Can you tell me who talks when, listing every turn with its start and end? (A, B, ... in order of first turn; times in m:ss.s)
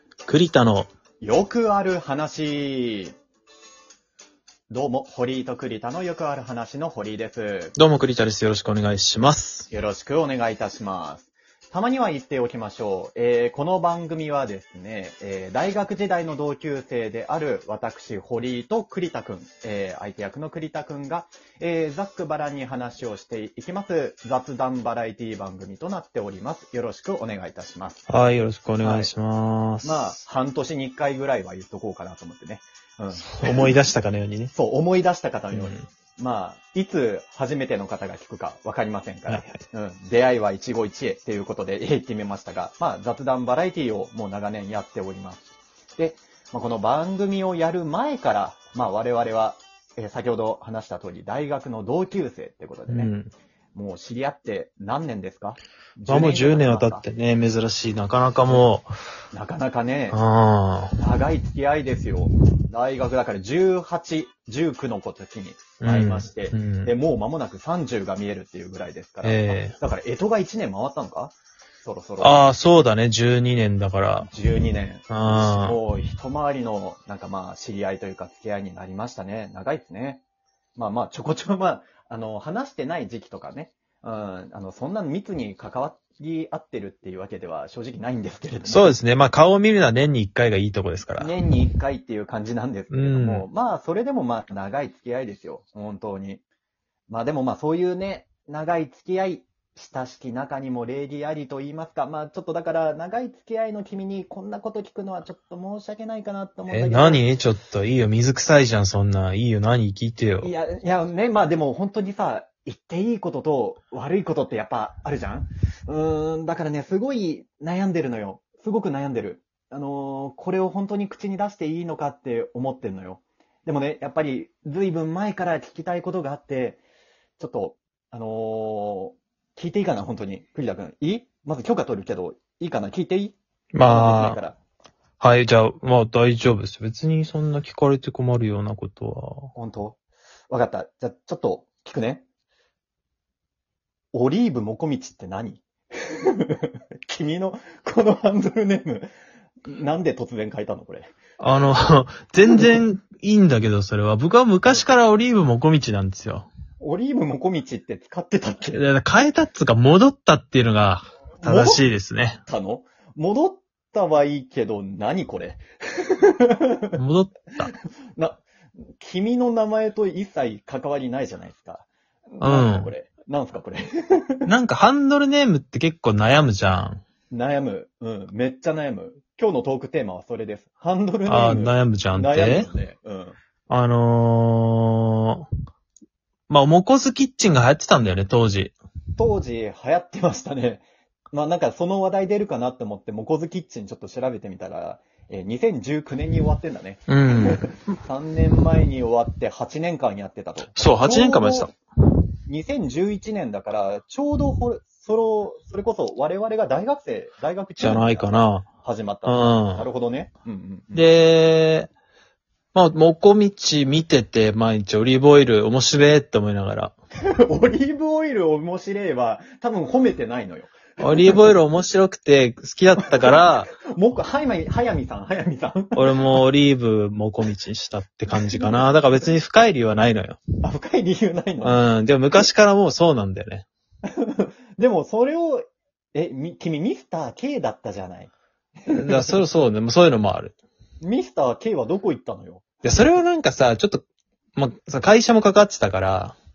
0:00.2-0:00.9 A
0:01.2-0:03.1 B
0:04.7-0:07.8 B
0:07.8-0:09.7 A
0:09.7-0:28.1 B
0:28.1-0:30.2 A
0:28.8-0:29.1 B
0:29.8-0:33.7 B
0:33.1-0:34.5 A
0:34.5-0:45.4 B
0:35.5-0:35.8 A
0:39.3-0:39.6 A
0:46.0-0:53.1 B
0:52.9-0:53.3 A
0:53.7-0:57.0 B
0:56.1-0:58.9 A
0:59.3-1:00.2 B
1:00.1-1:01.0 A
1:01.0-1:12.4 B
1:05.8-1:06.9 A
1:09.2-1:09.7 A
1:12.2-1:14.3 A
1:14.2-1:20.2 B
1:15.1-1:15.8 A
1:20.8-1:29.0 B
1:28.6-1:31.3 A
1:31.2-1:36.4 B
1:32.9-1:33.4 A
1:37.1-1:47.2 B
1:46.7-1:50.5 A
1:50.4-2:06.8 B
2:07.4-2:14.6 B
2:13.7-2:14.4 A
2:15.2-2:19.5 A
2:19.5-2:20.0 B
2:20.5-2:22.2 B
2:24.1-2:29.1 B
2:29.6-2:31.1 B
2:31.4-2:36.5 A
2:36.8-2:38.8 B
2:38.7-2:42.4 A
2:41.4-2:41.8 B
2:42.4-2:47.0 B
2:46.9-2:47.7 A
2:47.6-2:48.4 B
2:49.0-2:54.4 B
2:52.4-2:52.9 A
2:54.4-2:57.0 A
2:57.3-3:03.4 B
3:01.2-3:02.7 A
3:03.7-3:05.5 A
3:06.5-3:08.7 A
3:09.2-3:21.8 B
3:17.1-3:17.7 A
3:20.7-3:21.7 A
3:22.5-3:31.1 B
3:27.8-3:28.6 A
3:29.2-3:29.8 A
3:30.9-3:31.9 A
3:32.7-3:36.9 A
3:37.3-3:41.5 B
3:41.0-3:43.7 A
3:43.0-3:46.2 B
3:45.9-3:50.4 A
3:48.3-3:48.9 B
3:50.6-3:51.9 B
3:51.6-3:53.6 A
3:54.0-3:59.4 B
3:58.9-4:00.6 A
4:01.0-4:02.6 B
4:02.8-4:04.0 A
4:04.5-4:06.4 A